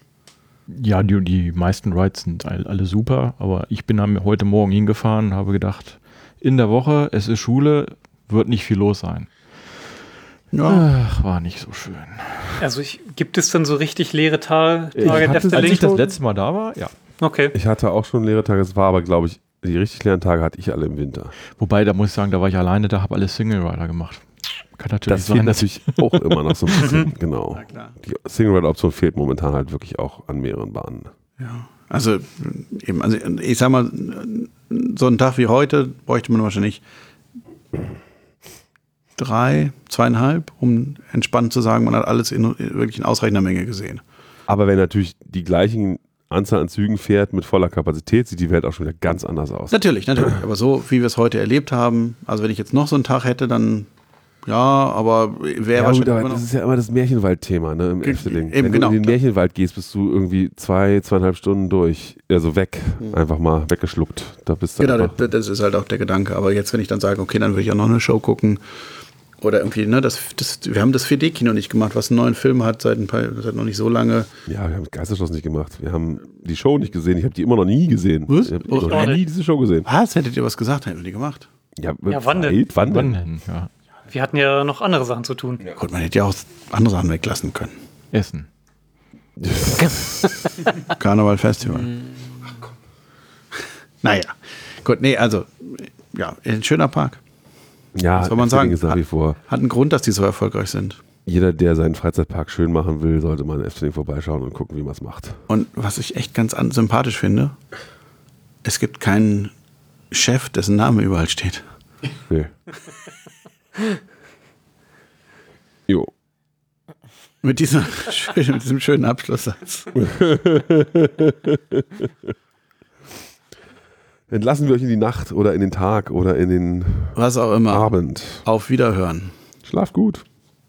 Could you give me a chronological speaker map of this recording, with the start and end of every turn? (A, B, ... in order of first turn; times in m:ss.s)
0:00.7-0:09.9 A
0:10.5-0:10.9 B
0:10.6-0:12.6 A
0:12.6-0:16.1 C
0:14.9-0:16.9 A
0:15.0-0:16.1 D
0:17.2-0:17.5 C
0:17.5-0:21.3 D
0:21.5-0:27.0 A
0:25.0-0:31.1 D
0:26.8-0:27.1 C
0:27.5-0:28.0 B
0:31.4-0:36.8 B
0:39.2-0:44.0 B
0:44.5-0:50.3 D
0:49.7-0:53.9 B
0:54.4-0:56.4 B
0:55.7-1:05.2 D
0:58.0-0:59.2 B
1:04.8-1:08.6 B
1:09.4-1:14.3 B
1:14.4-1:19.9 D
1:18.3-1:19.1 B
1:18.7-1:19.2 C
1:19.8-1:21.5 B
1:21.8-1:23.2 D
1:22.1-1:22.6 C
1:22.8-1:23.7 A
1:24.1-1:25.6 C
1:25.7-1:27.7 B
1:28.1-1:28.5 A
1:29.4-1:30.4 D
1:30.8-1:32.0 B
1:34.0-1:37.2 B
1:37.9-1:39.4 D
1:38.2-1:41.0 B
1:41.2-1:45.4 D
1:45.5-1:47.6 B
1:48.6-1:49.5 B
1:50.1-1:51.6 B
1:57.4-1:59.9 B
1:59.9-2:02.1 D
2:04.3-2:08.4 D
2:07.1-2:09.3 B
2:09.6-2:10.2 D